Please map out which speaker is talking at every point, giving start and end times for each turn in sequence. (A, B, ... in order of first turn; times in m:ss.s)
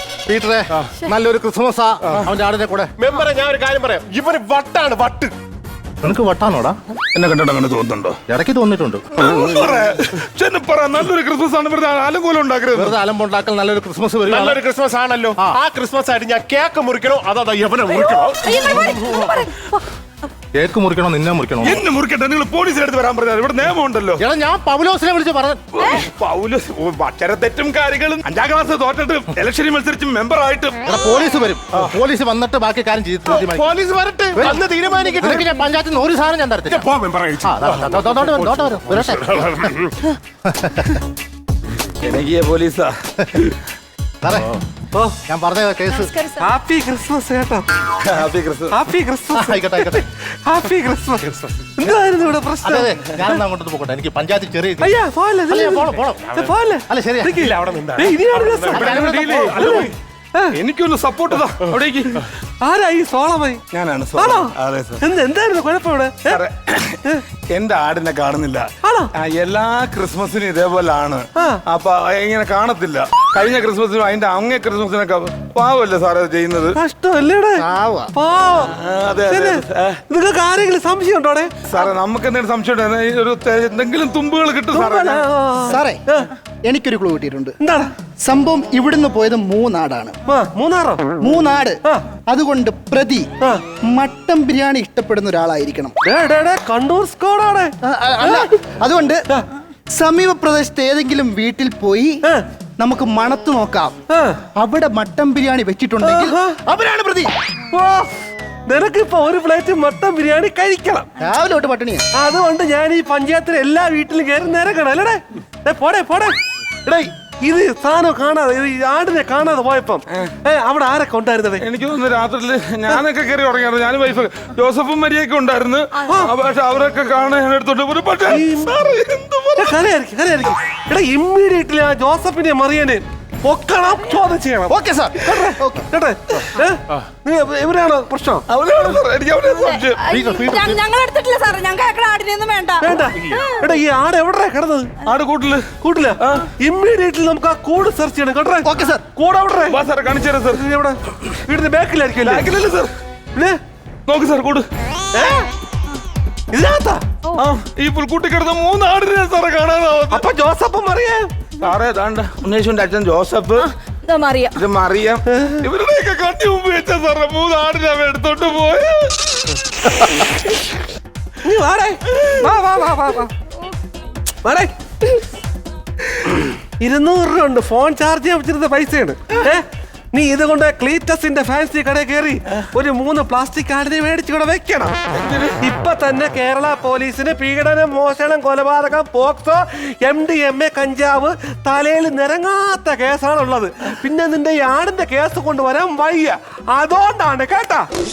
0:00.3-0:02.9 A
0:03.0-0:05.3 B
0:06.0-0:06.8 A
0:07.1-0:08.2 C
0:08.3-0:09.0 A
0:09.1-0:13.0 C
0:12.7-0:14.6 A
0:14.3-0:18.8 B
0:18.4-0:19.7 D
0:18.4-0:19.4 E
0:20.5-0:21.8 A
0:21.6-0:24.2 C
0:24.2-0:25.6 A
0:25.7-0:30.8 C
0:30.8-0:33.7 A
0:33.3-0:35.4 B
0:34.3-0:34.6 A
0:35.2-0:36.9 A
0:36.7-0:39.9 B
0:37.4-0:39.8 A
0:40.4-0:41.0 A
0:42.0-0:43.6 C
0:44.2-0:44.6 A
0:45.2-0:46.1 A
0:46.2-0:46.5 D
0:46.4-0:47.6 F
0:48.0-0:48.8 C
0:48.7-0:53.0 F
0:49.3-0:50.0 A
0:52.6-0:54.9 A
0:54.8-1:00.5 F
0:55.5-0:56.4 A
0:56.2-0:56.4 B
0:56.9-0:57.4 A
0:57.4-0:59.9 B
0:58.7-0:59.9 C
0:58.7-0:59.8 A
1:00.5-1:02.3 C
1:02.6-1:03.6 F
1:03.7-1:05.0 C
1:04.2-1:06.4 F
1:06.3-1:16.8 C
1:08.8-1:09.1 F
1:11.4-1:11.6 F
1:16.7-1:18.7 F
1:17.7-1:18.1 G
1:18.6-1:20.0 C
1:19.3-1:21.6 F
1:21.6-1:25.2 C
1:24.7-1:26.3 F
1:25.7-1:26.0 G
1:26.6-1:27.6 G
1:27.6-1:27.9 F
1:28.2-1:30.1 G
1:30.3-1:31.2 F
1:31.2-1:33.3 G
1:33.9-1:36.0 G
1:36.0-1:38.6 F
1:37.8-1:39.3 G
1:40.0-1:42.2 G
1:42.8-1:43.9 G
1:44.1-1:44.4 F
1:44.6-1:47.3 G
1:46.0-1:46.6 F
1:47.7-1:51.1 F
1:51.2-1:52.1 G
1:52.1-2:01.6 F
2:01.6-2:09.8 C
2:06.0-2:06.3 F
2:08.3-2:08.8 F
2:09.6-2:18.4 F
2:14.7-2:15.9 G
2:18.5-2:20.0 C
2:19.6-2:23.8 E
2:20.1-2:20.8 A
2:22.8-2:24.9 F
2:23.2-2:23.4 B
2:25.0-2:26.5 C
2:25.8-2:29.8 F
2:28.6-2:29.0 G
2:29.6-2:30.6 C
2:30.5-2:32.5 F
2:32.2-2:32.9 C
2:34.1-2:34.6 C
2:35.1-2:35.5 F
2:36.5-2:37.7 F
2:37.8-2:40.3 C
2:40.1-2:41.3 F
2:41.6-2:43.7 C
2:43.6-2:44.5 D
2:44.5-2:49.4 C
2:45.3-2:45.6 F
2:51.4-2:53.3 F
2:52.1-2:52.4 C
2:54.4-2:55.2 F
2:56.8-3:04.9 F
3:05.1-3:05.6 C
3:05.6-3:17.9 F